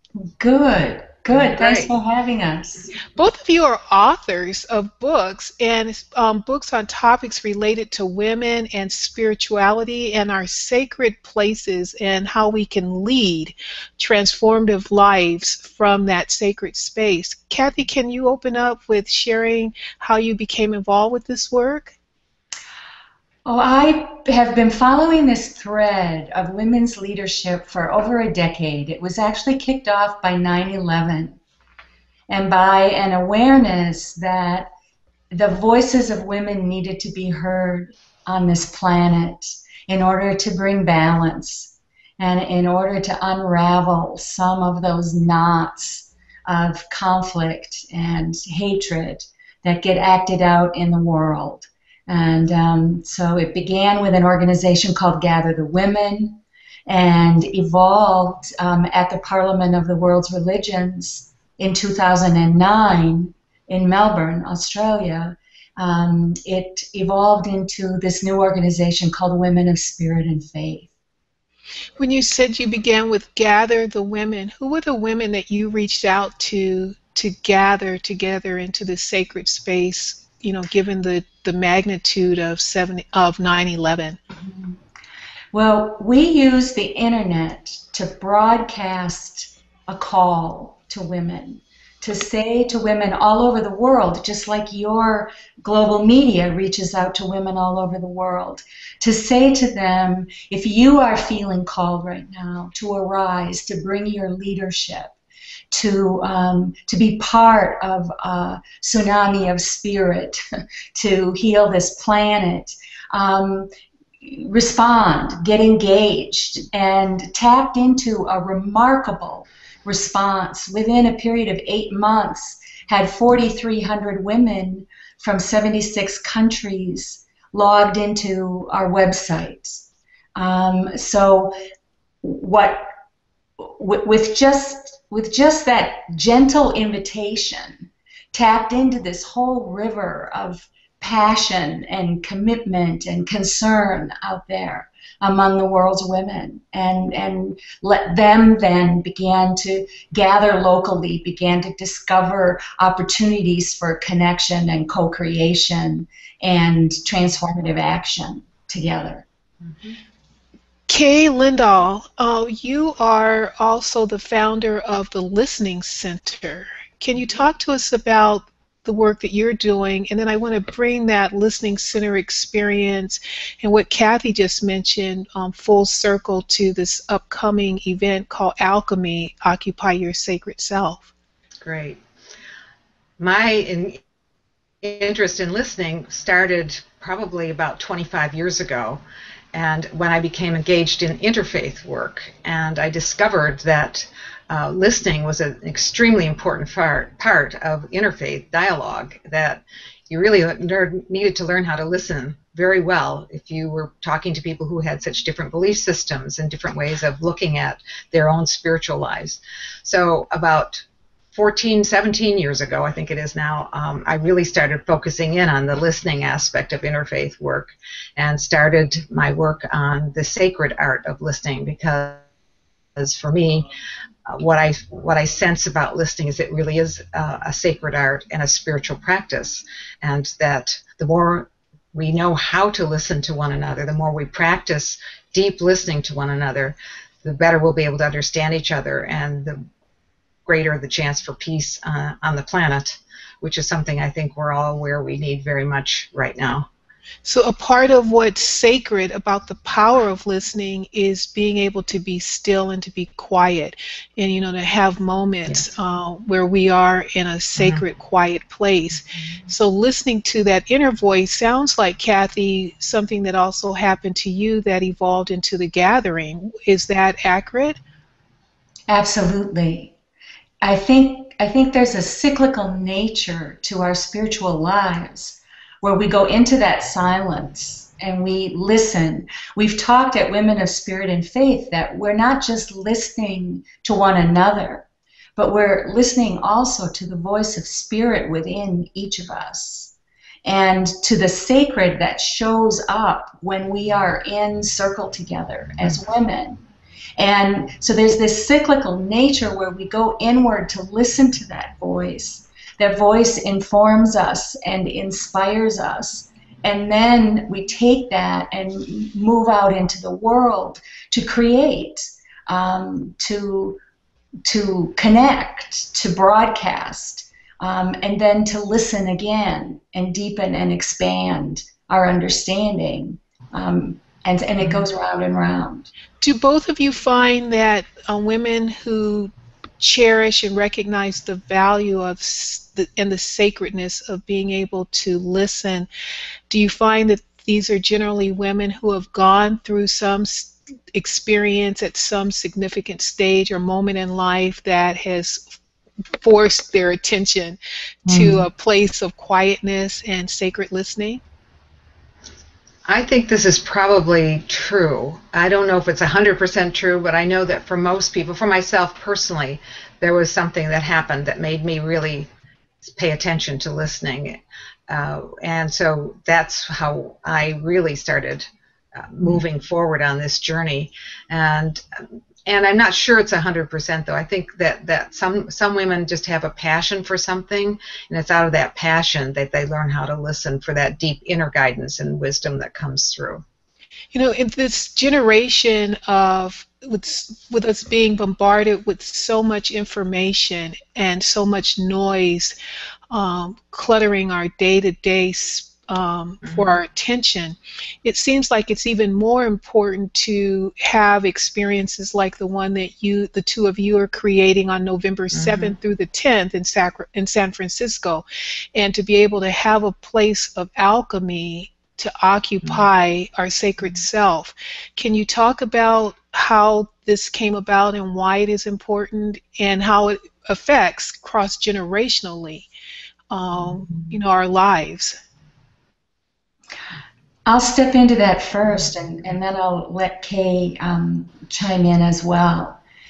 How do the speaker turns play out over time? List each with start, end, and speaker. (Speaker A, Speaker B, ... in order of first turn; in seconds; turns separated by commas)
Speaker A: 0.2-2.9, Speaker B: 1.3-1.9, Speaker C: 3.1-21.9, Speaker A: 23.4-31.4, Speaker A: 32.3-34.7, Speaker A: 35.3-70.9, Speaker C: 72.0-84.2, Speaker A: 84.3-84.8, Speaker A: 85.5-105.2, Speaker A: 105.7-110.4, Speaker A: 110.9-113.7, Speaker A: 114.2-129.8, Speaker A: 130.3-131.5, Speaker A: 132.2-132.9, Speaker A: 133.6-159.2, Speaker B: 159.6-160.0, Speaker C: 160.9-181.1, Speaker B: 181.6-182.0, Speaker B: 183.2-184.0, Speaker B: 184.8-189.0, Speaker B: 189.5-222.2, Speaker B: 223.0-223.7, Speaker B: 224.3-239.6, Speaker B: 240.4-246.7, Speaker C: 247.2-267.8, Speaker B: 257.6-257.8, Speaker A: 268.9-269.9, Speaker A: 270.6-289.9, Speaker A: 290.4-296.6, Speaker A: 297.2-313.8, Speaker A: 314.4-325.9, Speaker C: 326.2-335.9, Speaker C: 336.5-345.5, Speaker C: 346.2-351.2, Speaker A: 348.1-348.5, Speaker B: 352.9-362.3, Speaker B: 362.8-383.4, Speaker C: 384.1-392.5, Speaker C: 393.1-422.7, Speaker B: 405.3-405.7, Speaker C: 423.3-425.1, Speaker A: 427.4-432.8